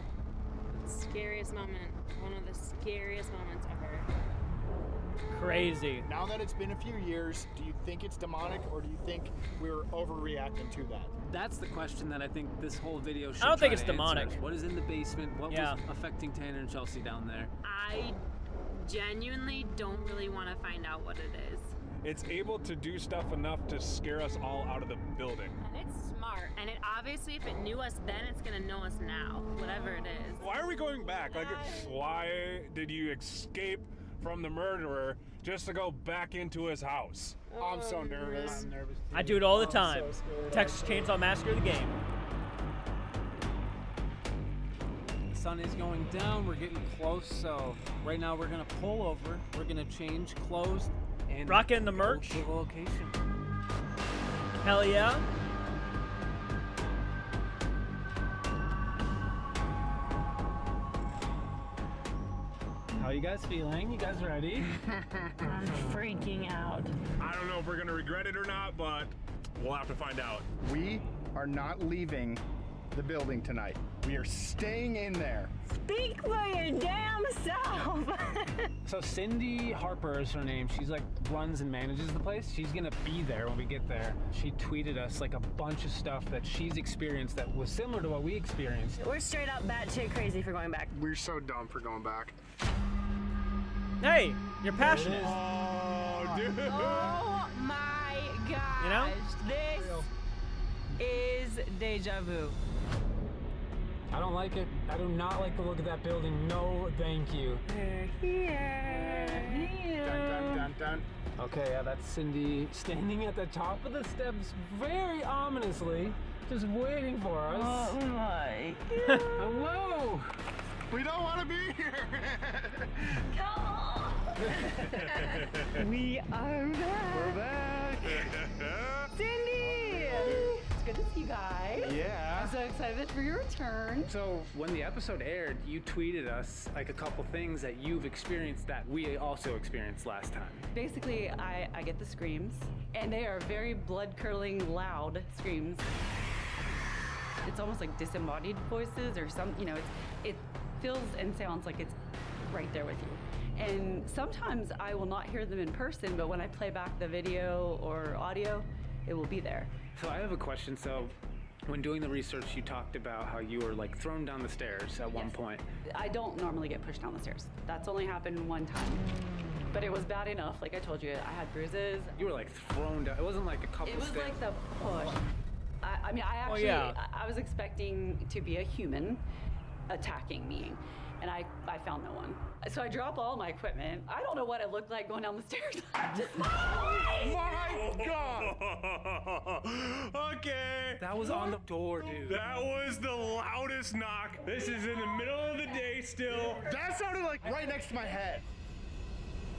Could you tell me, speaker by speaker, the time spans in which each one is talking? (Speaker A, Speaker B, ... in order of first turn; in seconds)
Speaker A: 0.7-4.1, 17.6-18.2, 18.7-21.8, 25.6-30.6, 31.2-31.9, 37.5-38.7, 65.4-67.0, 75.7-78.7, 89.0-90.9, 96.3-100.1, 101.0-102.6, 107.7-109.8, 117.5-119.7, 123.2-127.4, 129.1-131.9, 186.4-187.3
Speaker B: 5.3-6.1, 13.4-14.4, 15.5-15.8, 39.1-42.0, 51.5-52.5, 54.6-55.2, 94.0-95.4, 98.8-99.2, 176.4-177.0
Speaker C: 6.0-11.1, 37.6-38.7, 39.7-41.1, 65.0-65.3, 70.6-75.5, 90.9-92.3, 110.0-111.0, 120.9-123.2, 129.6-130.3, 131.8-132.6, 134.0-134.5, 187.1-188.6, 196.6-198.4
Speaker D: 11.2-17.5, 37.6-40.6, 45.3-53.2, 62.9-64.7, 78.8-89.0, 104.1-107.7, 108.8-110.7, 111.4-118.0, 119.3-120.3, 124.5-124.8, 127.1-128.3, 134.5-140.7, 159.9-165.6, 172.2-174.4, 191.0-192.4
Speaker E: 22.0-25.6, 30.4-37.4, 67.2-70.5, 94.8-97.2, 125.3-125.8, 128.1-129.1, 130.2-130.4, 187.2-196.7
Speaker F: 131.7-134.1, 140.7-145.8, 147.4-159.8, 165.1-165.3, 165.9-169.1, 169.7-172.1, 173.8-175.2, 175.8-179.2, 179.9-187.0